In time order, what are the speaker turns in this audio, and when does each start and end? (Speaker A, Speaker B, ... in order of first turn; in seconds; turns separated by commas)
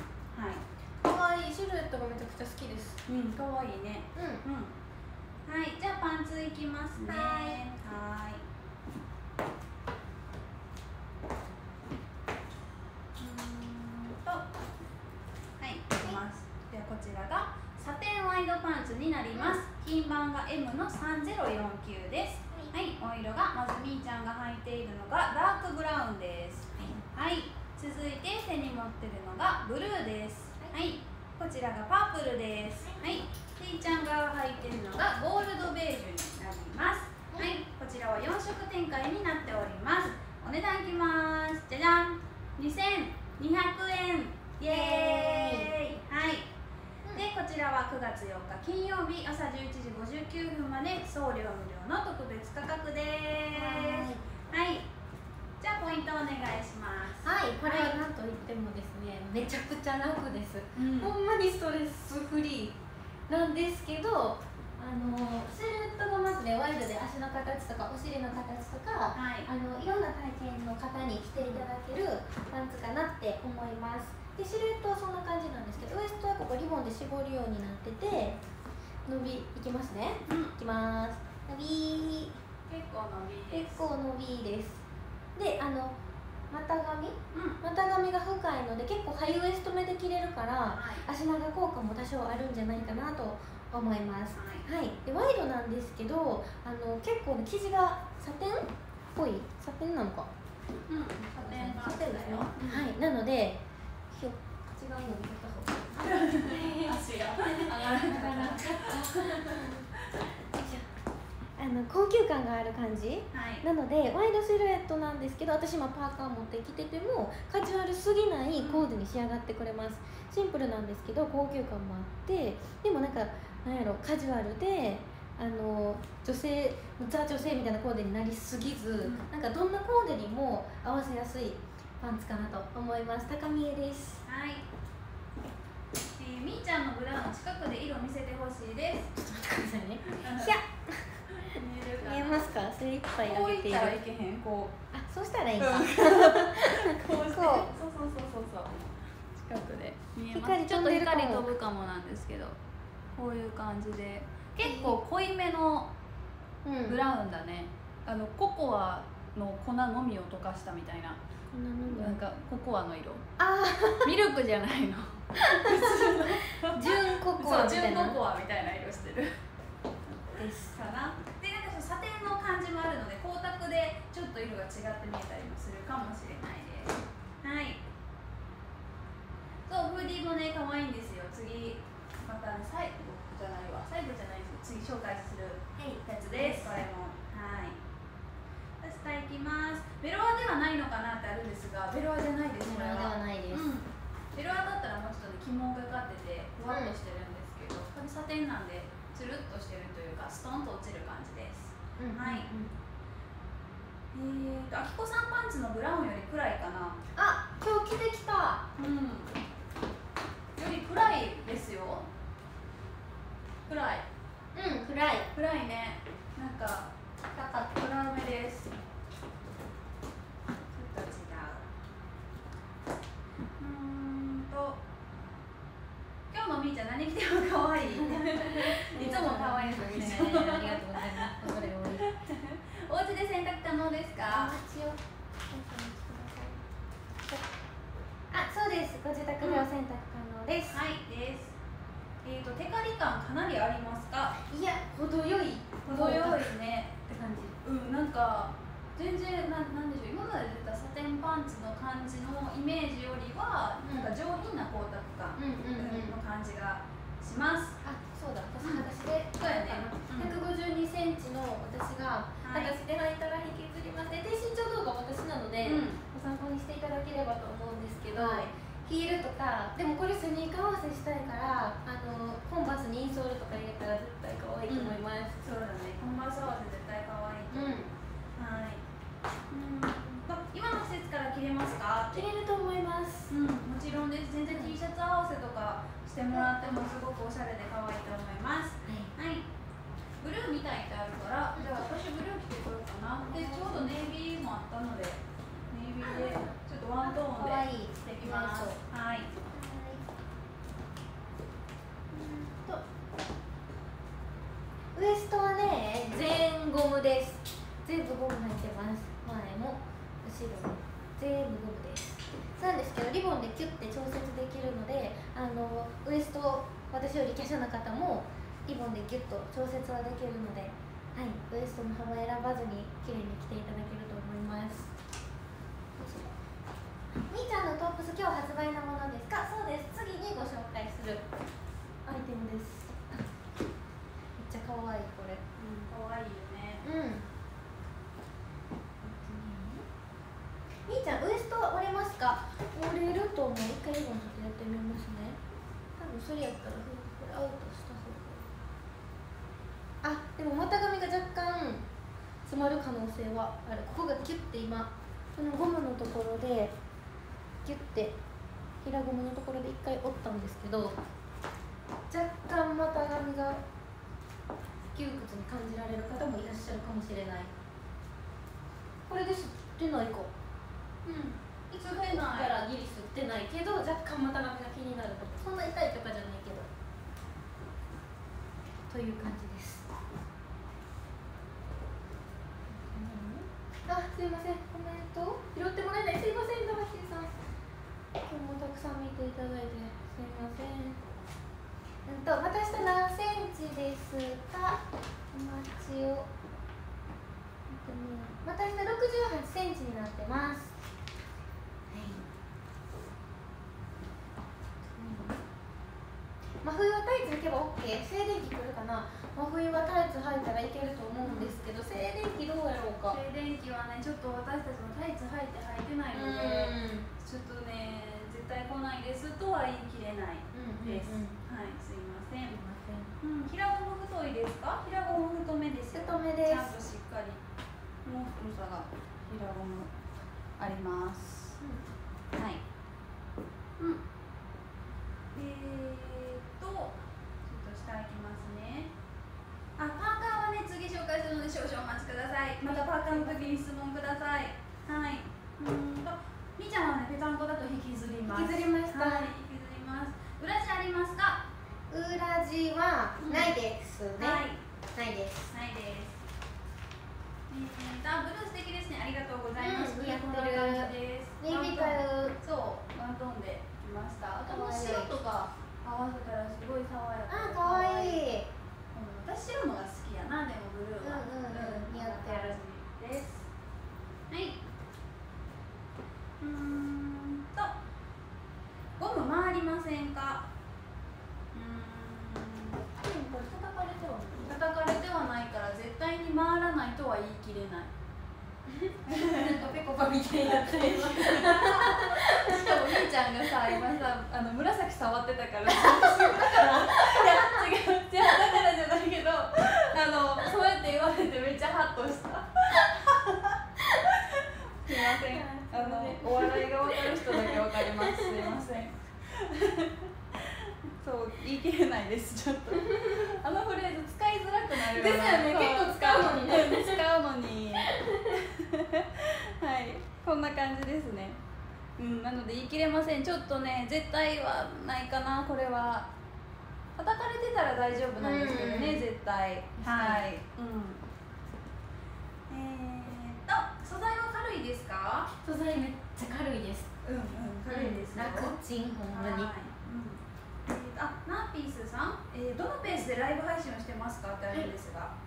Speaker A: 0.3-0.6, Speaker B: 1.0-3.0, Speaker A: 3.1-4.7, Speaker B: 4.2-4.4, Speaker A: 5.5-8.4, Speaker B: 7.0-7.6, Speaker A: 13.2-14.5, Speaker A: 15.6-46.5, Speaker B: 19.3-19.6, Speaker B: 30.6-31.0, Speaker B: 32.8-33.2, Speaker B: 37.3-37.6, Speaker B: 44.7-45.7, Speaker A: 47.1-54.9, Speaker B: 53.5-54.2, Speaker A: 55.6-58.0, Speaker B: 57.2-78.4, Speaker A: 60.8-61.1, Speaker A: 69.1-69.5, Speaker A: 71.4-71.7, Speaker B: 79.1-82.4, Speaker A: 80.3-80.5, Speaker A: 82.7-83.9, Speaker B: 83.5-84.8, Speaker B: 85.3-86.0, Speaker B: 86.5-100.3, Speaker A: 87.3-87.6, Speaker A: 90.7-91.0, Speaker A: 94.3-94.7, Speaker A: 100.9-102.9, Speaker B: 101.3-109.9, Speaker A: 106.0-109.7, Speaker B: 110.5-110.9, Speaker B: 111.6-134.2, Speaker A: 113.3-113.7, Speaker A: 118.6-118.9, Speaker A: 129.0-129.3, Speaker A: 134.2-134.6, Speaker A: 136.2-139.2, Speaker B: 139.2-141.1, Speaker A: 140.1-140.5, Speaker A: 141.3-142.5, Speaker B: 142.0-144.0, Speaker A: 143.2-144.7, Speaker B: 144.9-147.7, Speaker A: 145.6-148.8, Speaker A: 149.4-152.6, Speaker B: 150.3-151.5, Speaker A: 153.2-155.9, Speaker B: 154.6-155.0, Speaker B: 156.6-157.0, Speaker A: 156.9-161.2, Speaker B: 161.5-162.2, Speaker A: 161.9-163.2, Speaker B: 163.4-164.1, Speaker A: 164.0-169.3, Speaker B: 165.4-168.2, Speaker A: 170.3-177.8, Speaker B: 170.3-170.7, Speaker A: 179.7-187.8, Speaker B: 185.8-186.8, Speaker A: 188.8-202.5, Speaker B: 192.6-193.8, Speaker B: 196.7-196.9, Speaker B: 202.0-202.7, Speaker A: 204.1-207.0, Speaker B: 207.2-208.7, Speaker A: 208.8-209.3, Speaker A: 210.6-212.1, Speaker A: 213.7-214.1, Speaker B: 214.6-215.3, Speaker A: 215.3-218.7, Speaker A: 220.7-221.7, Speaker A: 223.6-224.8, Speaker A: 226.3-234.6, Speaker B: 227.9-232.1, Speaker B: 234.3-236.6, Speaker B: 238.3-240.8, Speaker A: 239.4-239.7, Speaker A: 240.7-241.6, Speaker A: 242.2-244.4, Speaker B: 244.4-247.6, Speaker A: 245.8-247.1, Speaker A: 247.6-257.8, Speaker B: 253.8-254.1, Speaker B: 255.4-256.2, Speaker B: 257.8-275.4, Speaker A: 258.6-260.4, Speaker A: 262.4-262.8, Speaker A: 265.6-266.0, Speaker A: 268.1-268.5, Speaker A: 274.7-277.9, Speaker B: 277.5-277.9, Speaker A: 278.4-278.8, Speaker A: 279.5-282.3, Speaker B: 282.1-283.3, Speaker A: 283.3-289.5, Speaker B: 284.5-284.8, Speaker B: 286.3-286.8, Speaker B: 288.8-289.1, Speaker A: 290.2-299.3, Speaker B: 291.6-291.9, Speaker B: 293.3-294.0, Speaker B: 296.0-298.8, Speaker B: 299.5-300.1, Speaker B: 302.1-302.8, Speaker B: 304.9-324.9, Speaker B: 326.0-326.4, Speaker B: 327.2-331.2, Speaker B: 332.1-333.2, Speaker B: 334.4-335.4, Speaker A: 335.6-336.9, Speaker B: 336.8-337.3, Speaker B: 339.0-339.8, Speaker B: 340.9-345.4, Speaker B: 346.0-348.5, Speaker B: 350.0-351.8, Speaker B: 352.4-356.7, Speaker B: 357.6-358.2, Speaker B: 358.8-361.0, Speaker B: 362.1-363.6, Speaker B: 364.9-367.5, Speaker B: 369.1-370.3, Speaker A: 371.1-372.6, Speaker B: 371.7-376.7, Speaker B: 378.9-379.9, Speaker B: 382.7-387.4, Speaker B: 388.2-391.0, Speaker B: 392.1-394.8, Speaker B: 395.3-396.3, Speaker B: 397.7-400.8, Speaker B: 401.9-402.2, Speaker B: 404.8-405.4, Speaker B: 406.6-413.2, Speaker A: 411.2-411.6, Speaker A: 413.1-422.6, Speaker B: 416.1-417.1, Speaker B: 420.5-421.4, Speaker B: 422.5-423.2, Speaker A: 423.2-427.4, Speaker B: 425.9-426.8, Speaker A: 428.1-429.9, Speaker A: 430.6-431.6, Speaker B: 431.6-431.9, Speaker A: 432.4-432.6, Speaker A: 435.3-438.9, Speaker A: 439.8-451.4, Speaker B: 442.6-443.6, Speaker B: 448.3-449.3, Speaker B: 451.9-454.4, Speaker A: 453.2-453.6, Speaker A: 454.2-454.6, Speaker B: 454.9-455.5, Speaker A: 455.5-456.2, Speaker A: 457.5-468.3, Speaker B: 459.6-462.4, Speaker B: 464.4-465.1, Speaker B: 467.3-468.5, Speaker A: 468.9-473.5, Speaker B: 471.0-472.6, Speaker A: 474.3-474.6, Speaker A: 476.4-477.8, Speaker A: 479.0-480.5, Speaker A: 481.5-482.8, Speaker B: 483.0-484.5, Speaker A: 484.4-487.9, Speaker B: 488.7-493.0, Speaker A: 489.1-489.6, Speaker A: 490.6-521.4, Speaker B: 495.7-497.7, Speaker B: 504.9-508.6, Speaker B: 512.7-513.2, Speaker B: 514.8-517.0, Speaker B: 517.8-518.4, Speaker A: 522.0-526.1, Speaker A: 527.0-531.0, Speaker B: 528.2-529.0, Speaker B: 529.8-530.3, Speaker A: 532.5-535.3, Speaker B: 535.4-536.9, Speaker A: 537.0-538.6, Speaker B: 537.7-539.5, Speaker A: 539.1-545.1